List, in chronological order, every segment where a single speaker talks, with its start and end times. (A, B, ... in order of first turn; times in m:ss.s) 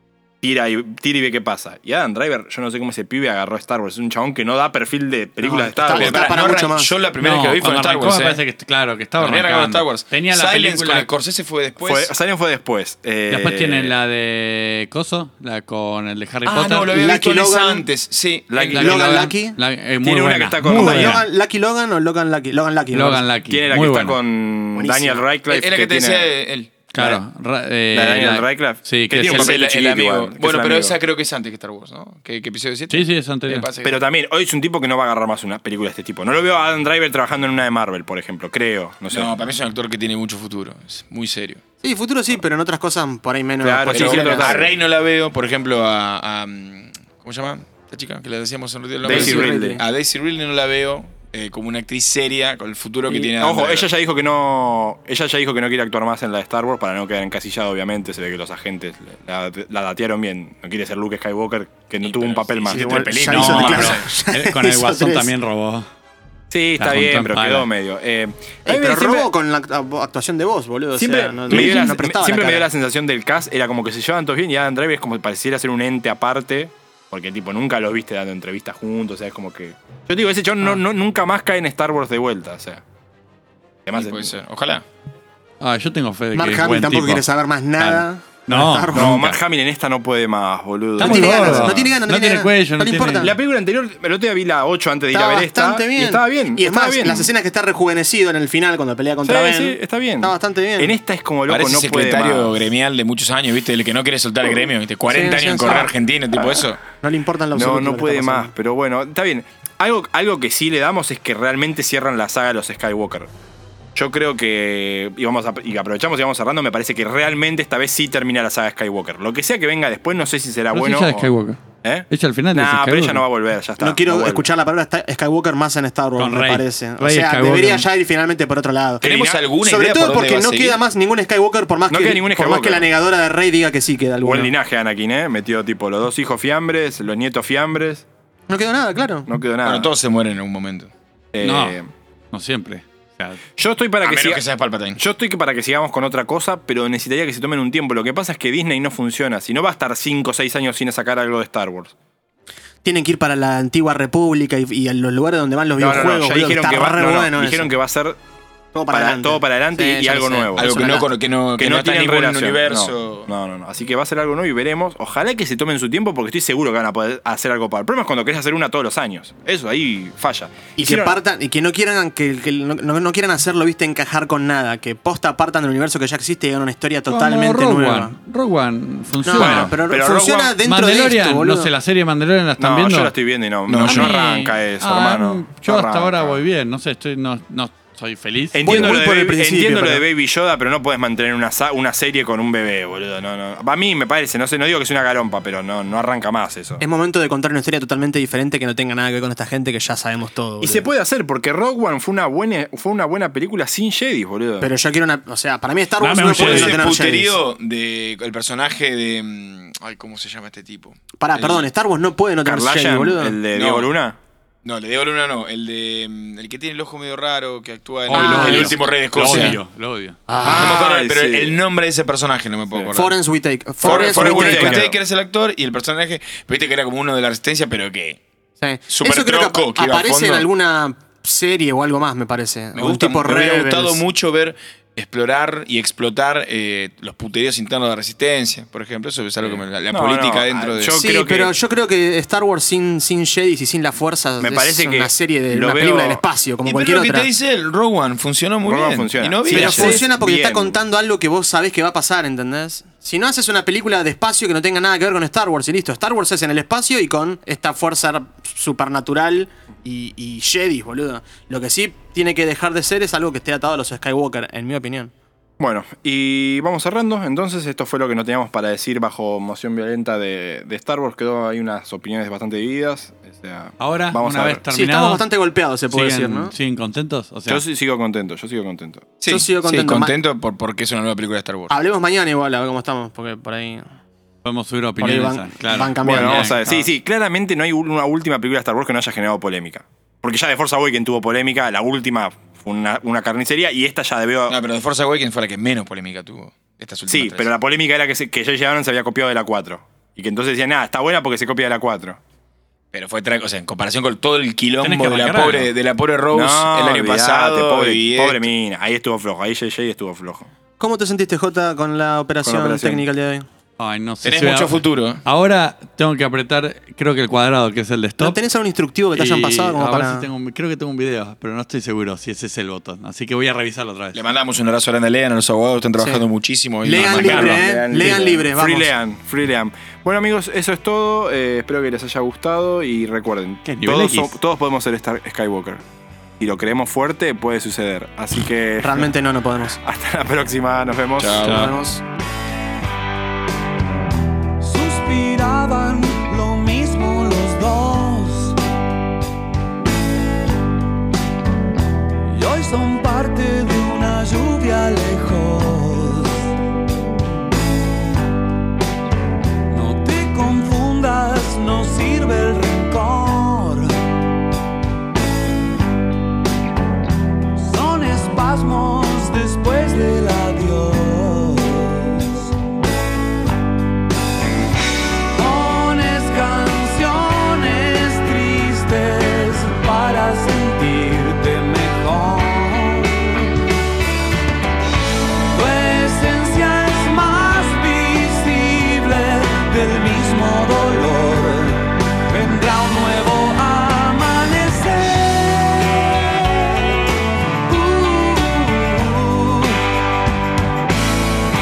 0:00.4-0:06.2 A
0:05.4-0:06.9 B
0:05.9-0:08.4 C
0:07.2-0:11.1 D
0:09.2-0:12.1 C
0:11.8-0:13.9 A
0:13.3-0:16.9 D
0:16.4-0:19.3 C
0:16.9-0:17.8 B
0:18.5-0:19.3 A
0:18.7-0:19.6 B
0:19.5-0:21.2 D
0:20.0-0:21.2 A
0:20.7-0:23.2 B
0:22.9-0:24.2 D
0:23.5-0:26.3 A
0:24.8-0:25.2 B
0:25.5-0:26.7 C
0:26.9-0:29.5 D
0:26.9-0:27.2 A
0:27.9-0:30.9 A
0:29.2-0:34.0 C
0:32.9-0:33.7 D
0:33.8-0:39.3 A
0:39.1-0:41.6 C
0:41.8-0:44.6 B
0:43.6-0:44.7 A
0:43.9-0:53.9 C
0:49.0-0:49.8 A
0:49.0-0:49.8 B
0:53.1-1:03.7 A
1:02.0-1:04.1 C
1:02.7-1:05.3 B
1:03.3-1:05.9 D
1:06.5-1:09.3 A
1:06.8-1:07.7 D
1:08.6-1:12.7 B
1:11.0-1:22.8 A
1:11.5-1:11.8 C
1:23.8-1:24.3 A
1:23.9-1:24.8 C
1:25.6-1:27.2 D
1:26.3-1:29.3 B
1:27.8-1:29.4 D
1:28.9-1:31.9 A
1:31.0-1:33.3 D
1:31.0-1:33.3 B
1:33.2-1:37.3 A
1:35.1-1:40.9 B
1:39.2-1:42.6 A
1:41.5-1:46.8 C
1:45.1-1:45.9 B
1:46.4-1:46.6 A
1:47.0-1:48.5 B
1:47.5-1:53.3 A
1:53.9-2:01.3 A
2:00.7-2:03.2 D
2:01.8-2:04.5 A
2:03.8-2:14.5 B
2:06.2-2:07.8 D
2:09.0-2:09.4 A
2:09.0-2:10.8 C
2:11.9-2:12.9 A
2:14.2-2:18.0 A
2:18.5-2:19.3 B
2:19.3-2:19.9 A
2:19.6-2:20.9 C
2:21.3-2:21.9 A
2:21.4-2:21.8 D
2:22.3-2:23.4 D
2:23.6-2:24.4 A
2:24.0-2:25.0 C
2:25.0-2:31.9 A
2:32.8-2:37.7 B
2:35.8-2:38.2 A
2:38.7-2:41.1 B
2:38.9-2:40.7 A
2:40.6-2:43.3 C
2:41.6-2:51.2 A
2:50.8-2:58.2 B
2:57.1-2:59.8 D
2:59.2-3:01.7 B
2:59.4-3:00.6 A
3:00.6-3:03.1 D
3:02.6-3:06.4 A
3:03.7-3:04.2 C
3:03.8-3:08.9 D
3:08.5-3:16.8 A
3:08.6-3:10.0 B
3:16.8-3:20.9 B
3:20.6-3:24.7 A
3:24.6-3:27.3 B
3:26.0-3:26.9 D
3:26.4-3:31.6 C
3:31.2-3:33.4 B
3:32.4-3:34.2 A
3:33.5-3:33.9 C
3:34.6-3:39.6 C
3:38.1-3:40.2 D
3:38.1-3:39.5 B
3:40.3-3:40.8 B
3:40.4-3:41.6 A
3:40.5-3:43.2 C
3:42.9-3:44.9 B
3:43.8-3:48.2 C
3:43.8-3:45.0 A
3:48.6-3:54.0 B
3:48.9-3:50.5 C
3:52.8-4:01.0 C
3:59.4-4:01.5 A
4:00.9-4:07.3 B
4:04.4-4:06.2 A
4:06.6-4:10.0 C
4:08.6-4:10.8 A
4:09.5-4:25.1 B
4:25.6-4:34.6 A
4:33.8-4:35.2 D
4:34.7-4:36.5 B
4:35.9-4:37.6 D
4:37.5-4:39.1 A
4:39.2-4:41.7 C
4:39.3-4:40.1 B
4:41.7-4:43.9 B
4:44.4-4:46.8 D
4:45.0-4:46.6 B
4:46.0-4:54.6 A
4:54.5-4:57.5 C
4:57.1-5:02.2 A
5:02.9-5:08.5 C
5:04.8-5:05.7 D
5:06.3-5:10.5 A
5:10.8-5:13.5 B
5:12.4-5:13.0 A
5:13.8-5:18.4 D
5:14.2-5:15.2 C
5:18.2-5:20.3 B
5:19.1-5:24.2 D
5:24.1-5:28.1 C
5:26.8-5:28.9 B
5:27.0-5:28.1 D
5:27.3-5:35.8 A
5:33.6-5:34.3 D
5:36.4-5:39.1 A
5:38.8-5:39.8 B
5:39.8-5:41.7 A
5:41.2-5:41.7 C
5:41.4-5:42.0 B
5:44.6-5:48.6 E
5:52.2-5:56.5 E
5:59.7-6:04.0 E
6:07.5-6:12.5 E
6:15.3-6:23.6 E
6:25.5-6:37.0 E
6:37.6-6:39.8 E